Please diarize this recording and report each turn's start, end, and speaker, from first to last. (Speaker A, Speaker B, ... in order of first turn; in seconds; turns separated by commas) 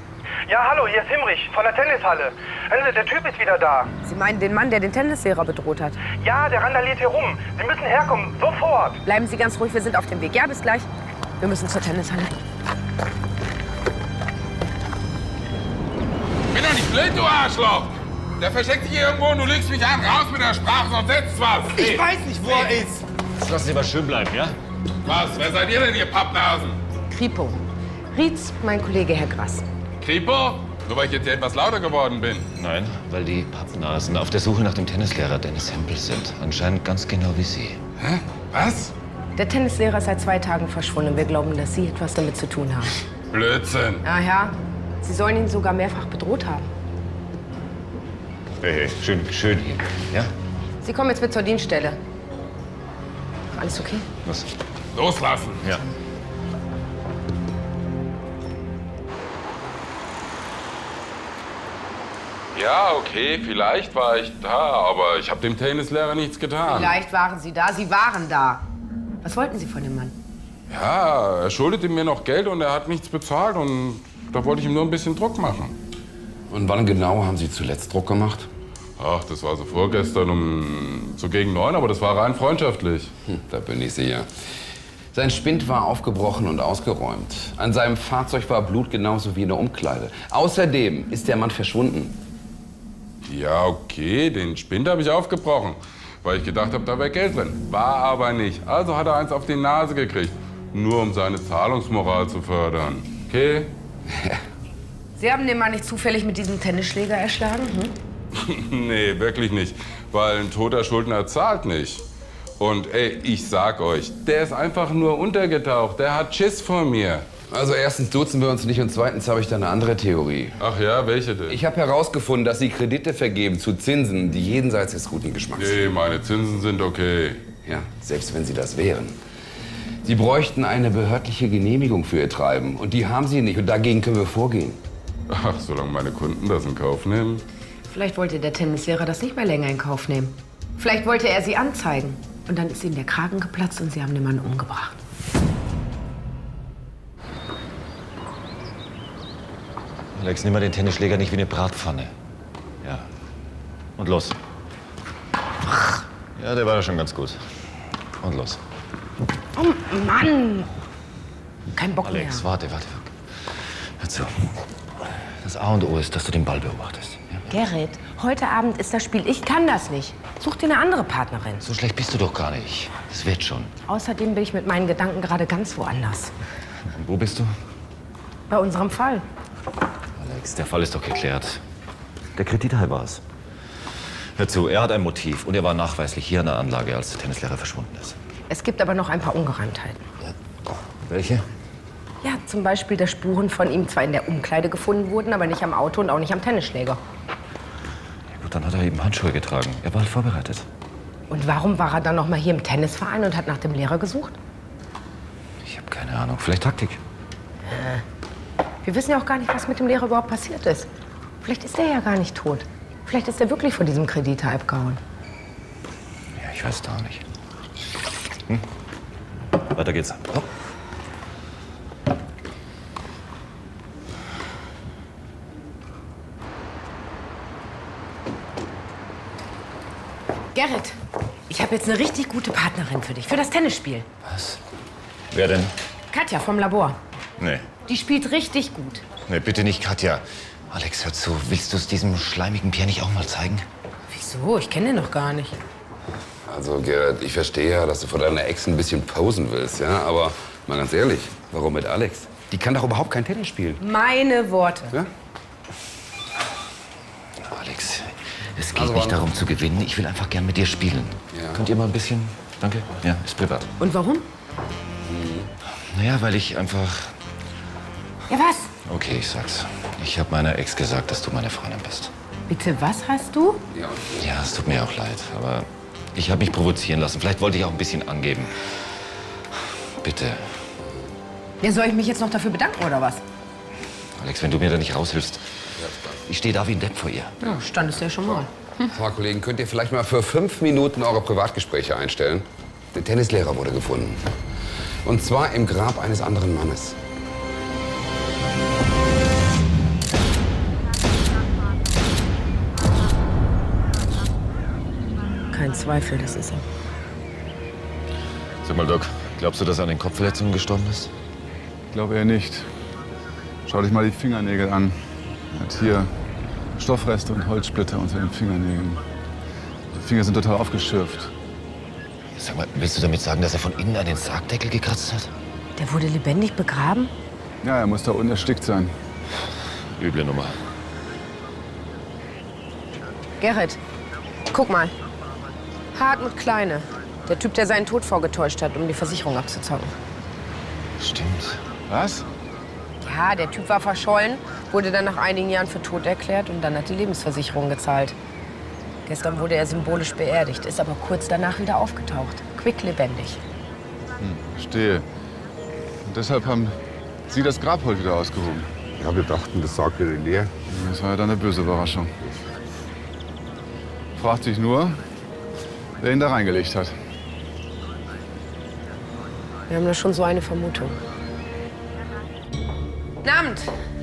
Speaker A: 0.5-3.9, Speaker B: 4.0-6.0, Speaker A: 6.1-9.0, Speaker B: 9.0-10.9, Speaker B: 11.4-12.4, Speaker C: 16.5-22.0, Speaker B: 21.8-22.7, Speaker D: 23.4-24.6, Speaker C: 25.1-26.8, Speaker B: 27.1-27.6, Speaker B: 28.1-29.6, Speaker C: 30.0-32.5, Speaker D: 32.5-37.8, Speaker C: 38.0-38.9, Speaker B: 39.4-42.9, Speaker C: 43.3-44.0, Speaker B: 44.0-46.7, Speaker D: 48.6-50.3, Speaker B: 50.8-52.0, Speaker B: 53.5-54.1, Speaker D: 54.2-54.5, Speaker C: 55.0-55.6, Speaker C: 62.5-67.0, Speaker B: 66.7-68.6, Speaker B: 69.2-70.2, Speaker C: 70.7-75.8, Speaker E: 76.5-78.5, Speaker C: 79.0-83.1, Speaker E: 83.3-84.3, Speaker E: 85.1-92.2, Speaker C: 93.2-103.7, Speaker B: 105.2-107.9, Speaker C: 108.4-112.0, Speaker C: 112.6-117.3, Speaker E: 117.5-120.6, Speaker C: 120.6-121.6, Speaker E: 121.5-125.9, Speaker C: 125.6-127.5, Speaker E: 127.7-129.2, Speaker E: 130.0-134.8, Speaker C: 135.3-137.4, Speaker B: 137.9-145.0, Speaker D: 150.1-152.1, Speaker D: 152.8-153.1, Speaker D: 154.0-154.4, Speaker D: 155.7-157.4, Speaker D: 158.2-158.6, Speaker B: 159.6-160.7, Speaker B: 161.8-162.5, Speaker D: 162.0-164.5, Speaker D: 165.4-167.4, Speaker B: 167.5-171.6, Speaker D: 171.6-173.7, Speaker B: 173.9-176.3, Speaker D: 176.9-177.5, Speaker B: 178.5-179.2, Speaker D: 180.2-181.6, Speaker D: 182.4-183.2, Speaker D: 184.4-188.2, Speaker B: 188.5-190.1, Speaker D: 190.2-191.4, Speaker B: 192.2-197.0, Speaker D: 198.3-200.7, Speaker B: 201.3-204.4, Speaker D: 205.6-207.0, Speaker B: 207.7-208.0, Speaker B: 208.8-210.9, Speaker B: 211.4-215.0, Speaker D: 216.3-217.2, Speaker D: 219.7-220.5, Speaker B: 230.5-231.0, Speaker B: 231.5-234.1, Speaker D: 234.2-234.6, Speaker D: 235.3-235.7, Speaker B: 236.1-237.0, Speaker D: 237.4-237.7, Speaker B: 237.9-239.0, Speaker D: 239.3-243.7, Speaker B: 244.1-245.6, Speaker E: 246.5-253.8, Speaker B: 253.8-255.0, Speaker D: 257.4-263.7, Speaker E: 258.7-259.2, Speaker E: 261.3-261.6, Speaker B: 263.8-264.3, Speaker E: 265.0-265.5, Speaker D: 265.7-267.1, Speaker B: 268.3-268.7, Speaker D: 268.9-272.1, Speaker B: 272.5-273.6, Speaker E: 273.7-274.1, Speaker D: 274.1-278.8, Speaker D: 280.0-280.5, Speaker B: 281.6-283.2, Speaker D: 284.2-285.5, Speaker D: 286.2-287.6, Speaker B: 287.5-288.5, Speaker E: 288.9-294.2, Speaker E: 295.1-297.0, Speaker B: 305.5-306.6, Speaker D: 308.6-311.1, Speaker F: 311.9-312.7, Speaker F: 313.7-315.0, Speaker F: 315.5-316.1, Speaker F: 316.8-319.0, Speaker F: 319.9-321.3, Speaker D: 322.4-325.3, Speaker B: 325.8-327.1, Speaker F: 327.6-328.9, Speaker D: 329.9-330.6, Speaker B: 333.4-333.8, Speaker B: 334.5-334.9, Speaker B: 335.9-339.9, Speaker D: 341.0-341.6, Speaker F: 341.9-342.3, Speaker B: 343.0-348.2, Speaker B: 349.1-353.4, Speaker F: 354.2-355.1, Speaker F: 356.1-356.8, Speaker F: 357.3-358.7, Speaker E: 359.0-360.5, Speaker F: 360.7-362.1, Speaker F: 364.1-365.0, Speaker F: 366.0-366.9, Speaker B: 369.7-371.0, Speaker B: 373.2-373.7